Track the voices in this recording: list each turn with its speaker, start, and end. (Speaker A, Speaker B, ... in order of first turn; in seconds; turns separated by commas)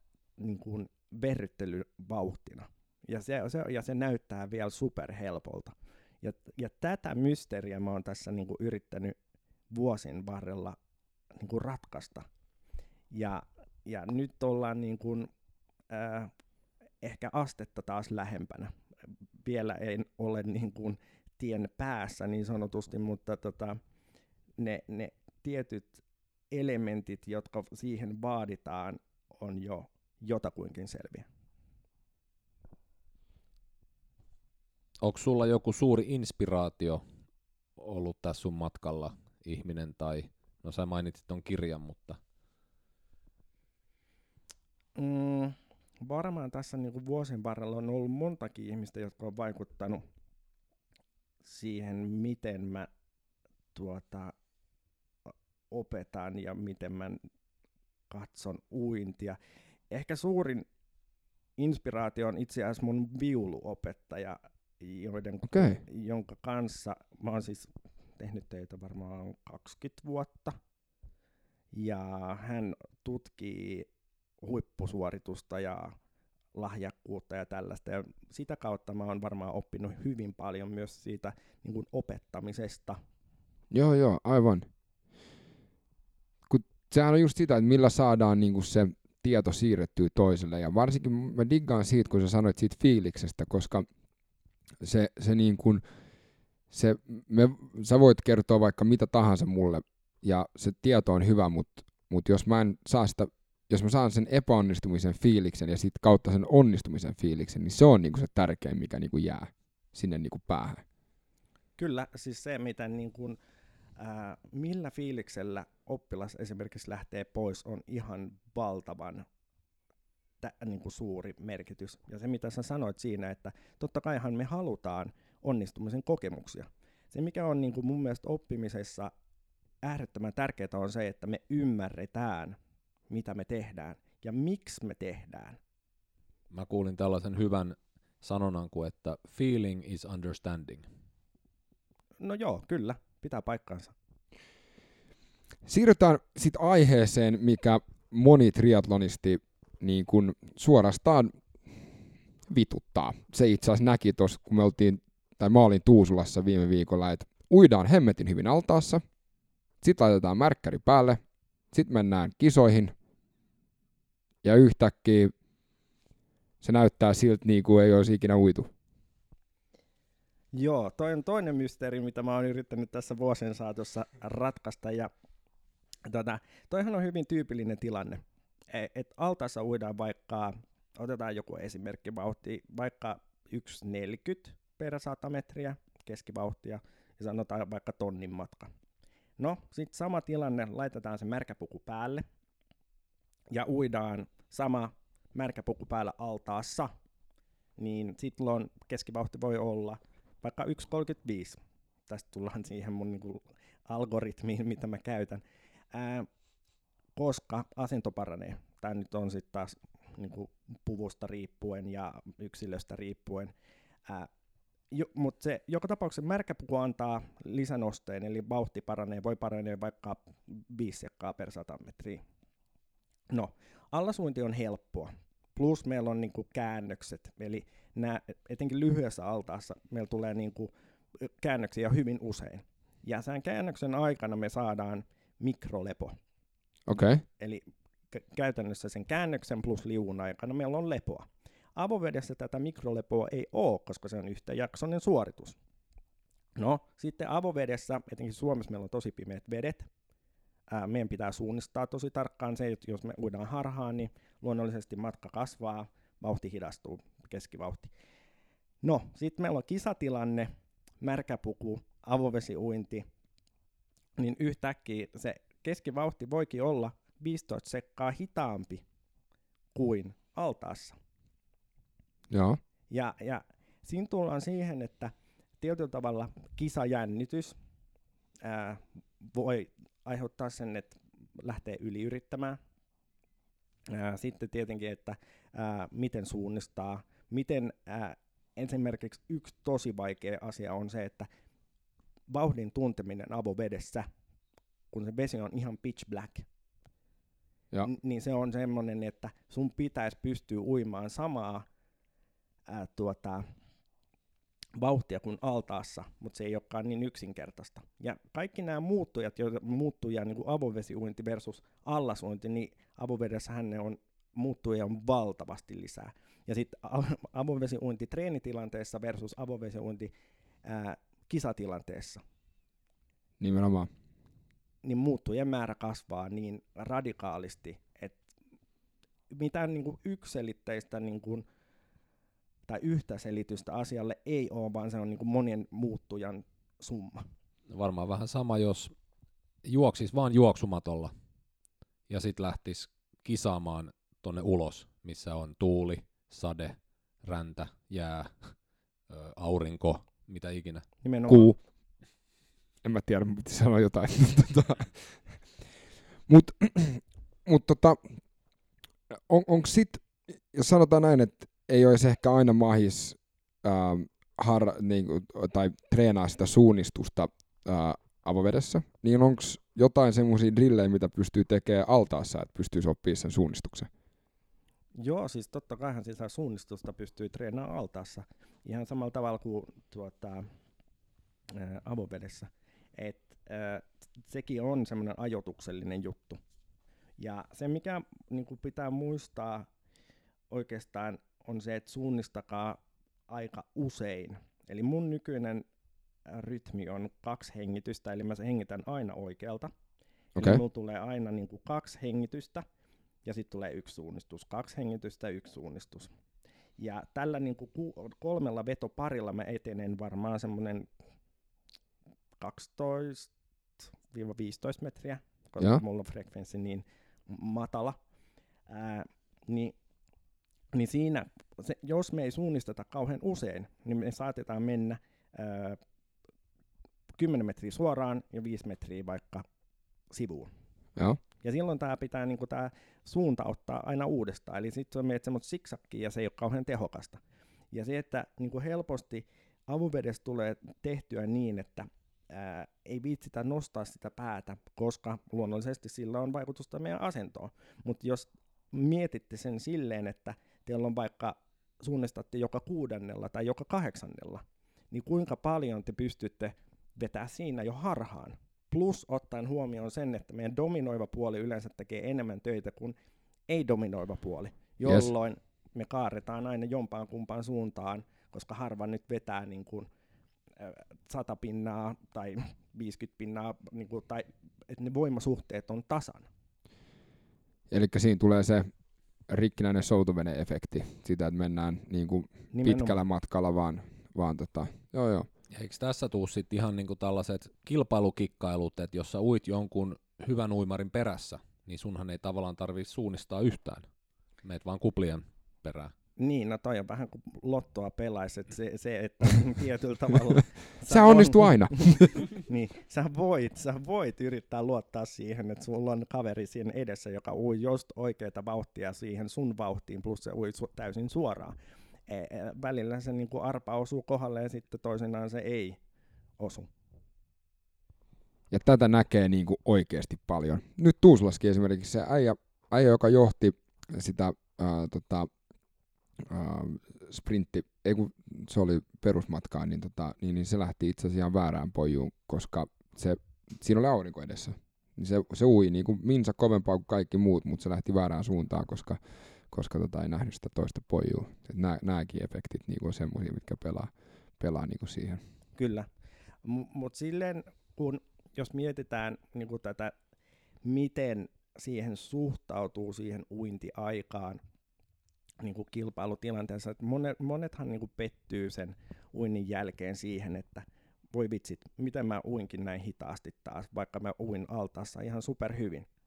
Speaker A: 0.4-9.1, Speaker A: 9.7-10.8, Speaker A: 11.4-12.2, Speaker A: 13.1-15.3, Speaker A: 15.9-16.3, Speaker A: 17.0-18.7, Speaker A: 19.4-23.8, Speaker A: 24.6-31.3, Speaker B: 35.0-37.0, Speaker B: 37.8-42.2, Speaker A: 45.0-50.0, Speaker A: 51.4-52.9, Speaker A: 53.7-54.3, Speaker A: 55.7-57.2, Speaker A: 58.1-59.4, Speaker A: 59.9-60.6, Speaker A: 61.6-70.5, Speaker C: 65.5-65.8, Speaker A: 71.7-73.9, Speaker A: 74.4-75.9, Speaker A: 76.5-83.0, Speaker C: 83.7-84.7, Speaker C: 86.5-93.9, Speaker C: 94.8-95.8, Speaker C: 96.7-110.8, Speaker A: 111.8-113.4, Speaker A: 114.0-119.2, Speaker A: 120.4-129.1, Speaker A: 129.8-132.6, Speaker A: 133.1-135.6, Speaker B: 136.5-140.8, Speaker A: 142.2-143.9, Speaker C: 145.6-151.8, Speaker C: 152.5-159.0, Speaker C: 159.8-161.2, Speaker C: 161.7-162.9, Speaker C: 164.4-165.3, Speaker C: 166.6-168.7, Speaker A: 170.5-175.1, Speaker A: 176.1-188.7, Speaker A: 189.4-192.2, Speaker A: 193.5-196.9, Speaker A: 197.8-206.3, Speaker A: 207.2-213.5, Speaker A: 214.9-222.2, Speaker A: 223.3-236.1, Speaker C: 236.9-237.2, Speaker A: 237.4-245.6, Speaker A: 246.6-249.9, Speaker A: 250.7-257.9, Speaker A: 258.8-263.0, Speaker A: 264.2-268.8, Speaker A: 269.7-270.9, Speaker C: 272.3-272.6, Speaker A: 272.9-277.6, Speaker A: 278.4-282.6, Speaker A: 283.9-291.3, Speaker A: 292.3-294.1, Speaker A: 294.9-296.4, Speaker A: 297.8-301.6, Speaker A: 302.7-303.4, Speaker A: 304.8-320.1, Speaker A: 320.6-322.2, Speaker C: 323.4-323.9, Speaker A: 324.8-328.2, Speaker A: 329.3-331.4, Speaker A: 332.7-337.2, Speaker B: 337.7-338.9, Speaker B: 339.6-341.1, Speaker B: 342.1-348.5, Speaker B: 349.1-350.9, Speaker A: 351.0-351.5, Speaker C: 351.3-351.6, Speaker C: 352.8-355.4, Speaker C: 356.3-358.0, Speaker C: 359.1-373.9, Speaker A: 375.0-380.4, Speaker A: 381.5-386.4, Speaker A: 387.2-389.7, Speaker A: 390.5-395.6, Speaker A: 396.3-399.7, Speaker C: 400.4-400.6, Speaker A: 400.4-402.6, Speaker A: 403.2-406.1, Speaker A: 406.8-410.9, Speaker A: 412.4-418.0, Speaker A: 418.7-419.7, Speaker A: 420.7-425.8, Speaker A: 427.1-429.4, Speaker A: 430.1-430.5, Speaker A: 431.4-437.2, Speaker A: 437.7-462.9, Speaker A: 463.5-469.9, Speaker C: 464.8-465.1, Speaker A: 470.6-476.3, Speaker C: 477.7-478.7, Speaker C: 479.3-485.3, Speaker A: 482.5-483.0, Speaker B: 485.5-493.9, Speaker B: 494.4-495.9, Speaker A: 496.2-511.6, Speaker C: 500.9-502.3, Speaker A: 512.1-515.8, Speaker A: 516.4-516.7, Speaker C: 518.5-525.3, Speaker C: 526.2-539.0, Speaker C: 539.5-545.2, Speaker A: 545.5-545.9, Speaker A: 546.4-549.9, Speaker A: 550.6-554.4, Speaker A: 555.4-565.9